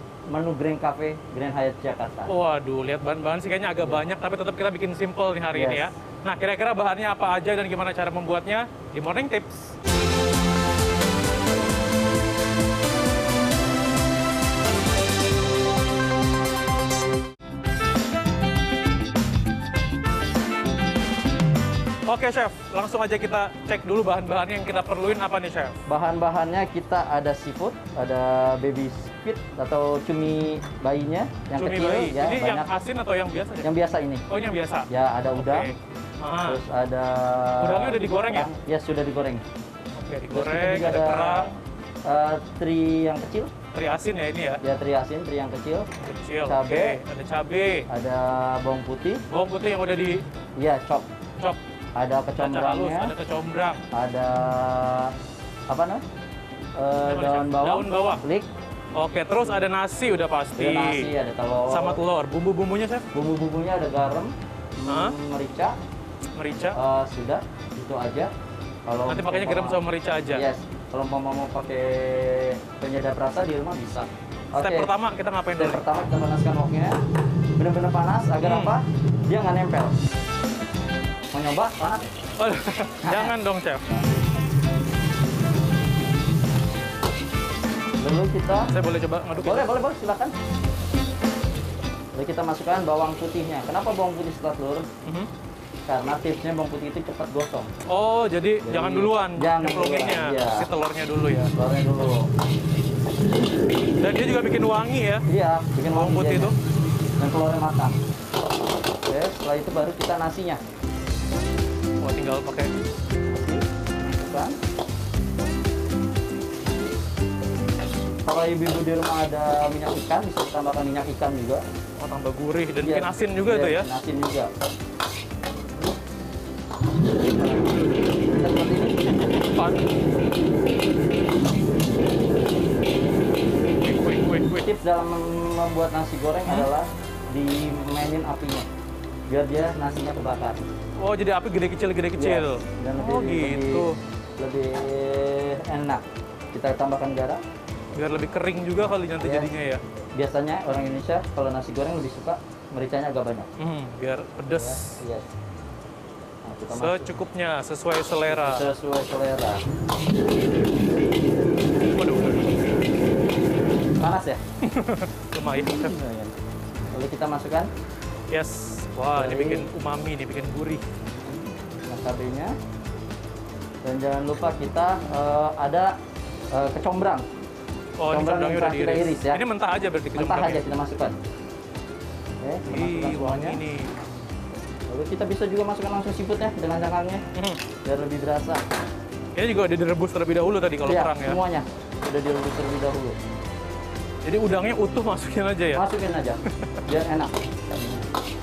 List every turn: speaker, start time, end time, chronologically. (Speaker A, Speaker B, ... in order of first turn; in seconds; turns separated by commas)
Speaker A: 0.3-2.4, Speaker B: 2.3-9.7, Speaker A: 5.5-5.9, Speaker B: 22.1-25.8, Speaker A: 25.9-32.8, Speaker B: 31.6-33.7, Speaker A: 33.6-34.2, Speaker B: 34.3-36.6, Speaker A: 34.9-35.7, Speaker A: 36.4-39.4, Speaker B: 37.6-38.5, Speaker B: 40.0-41.5, Speaker A: 40.3-43.5, Speaker B: 43.7-44.6, Speaker A: 44.6-45.9, Speaker B: 46.0-47.9, Speaker A: 46.4-47.0, Speaker A: 47.9-49.2, Speaker B: 49.3-50.2, Speaker A: 50.6-51.1, Speaker A: 52.0-53.1, Speaker B: 52.4-53.8, Speaker A: 53.9-55.1, Speaker A: 55.7-56.0, Speaker A: 56.8-58.5, Speaker B: 57.0-58.2, Speaker B: 59.0-61.1, Speaker A: 60.6-62.0, Speaker B: 61.7-63.1, Speaker A: 63.1-65.8, Speaker B: 64.9-65.2, Speaker B: 66.4-66.8, Speaker A: 66.7-68.3, Speaker A: 68.9-74.9, Speaker B: 69.1-70.5, Speaker B: 74.6-75.8, Speaker A: 75.6-77.0, Speaker A: 77.6-79.9, Speaker B: 78.4-78.8, Speaker A: 81.3-82.1, Speaker B: 82.4-83.9, Speaker A: 83.0-83.3, Speaker A: 88.0-88.7, Speaker B: 88.6-89.7, Speaker A: 89.4-90.3, Speaker A: 92.1-94.9, Speaker B: 95.0-95.3, Speaker A: 95.9-97.7, Speaker B: 97.9-101.5, Speaker A: 98.6-100.7, Speaker A: 101.5-102.3, Speaker B: 104.0-105.3, Speaker A: 105.3-106.5, Speaker B: 105.9-106.5, Speaker A: 107.2-108.0, Speaker A: 109.1-110.6, Speaker B: 112.0-112.7, Speaker A: 113.3-114.6, Speaker A: 118.2-121.6, Speaker B: 122.0-123.9, Speaker A: 122.8-124.5, Speaker A: 127.3-127.7, Speaker B: 127.7-128.0, Speaker A: 128.3-129.0, Speaker B: 129.3-129.8, Speaker B: 133.8-134.7, Speaker A: 134.6-138.7, Speaker B: 136.4-136.7, Speaker A: 139.3-140.6, Speaker B: 141.0-144.0, Speaker A: 142.2-147.4, Speaker B: 147.9-149.8, Speaker A: 149.1-149.6, Speaker A: 150.2-153.5, Speaker B: 153.6-155.0, Speaker A: 154.5-155.3, Speaker A: 156.4-157.2, Speaker B: 156.7-158.7, Speaker A: 158.3-159.6, Speaker B: 161.9-162.5, Speaker A: 164.0-164.4, Speaker B: 164.6-166.1, Speaker A: 165.8-166.3, Speaker A: 166.9-167.7, Speaker B: 168.3-170.8, Speaker A: 169.1-169.7, Speaker A: 171.8-172.6, Speaker A: 173.8-175.9, Speaker A: 176.5-177.3, Speaker B: 178.0-180.6, Speaker A: 178.1-179.4, Speaker A: 180.2-181.2, Speaker A: 182.4-183.6, Speaker B: 182.7-184.0, Speaker A: 184.9-187.2, Speaker B: 187.3-187.7, Speaker A: 187.8-188.6, Speaker B: 189.3-191.4, Speaker A: 190.8-193.2, Speaker B: 194.2-195.9, Speaker A: 195.7-198.0, Speaker B: 196.5-196.8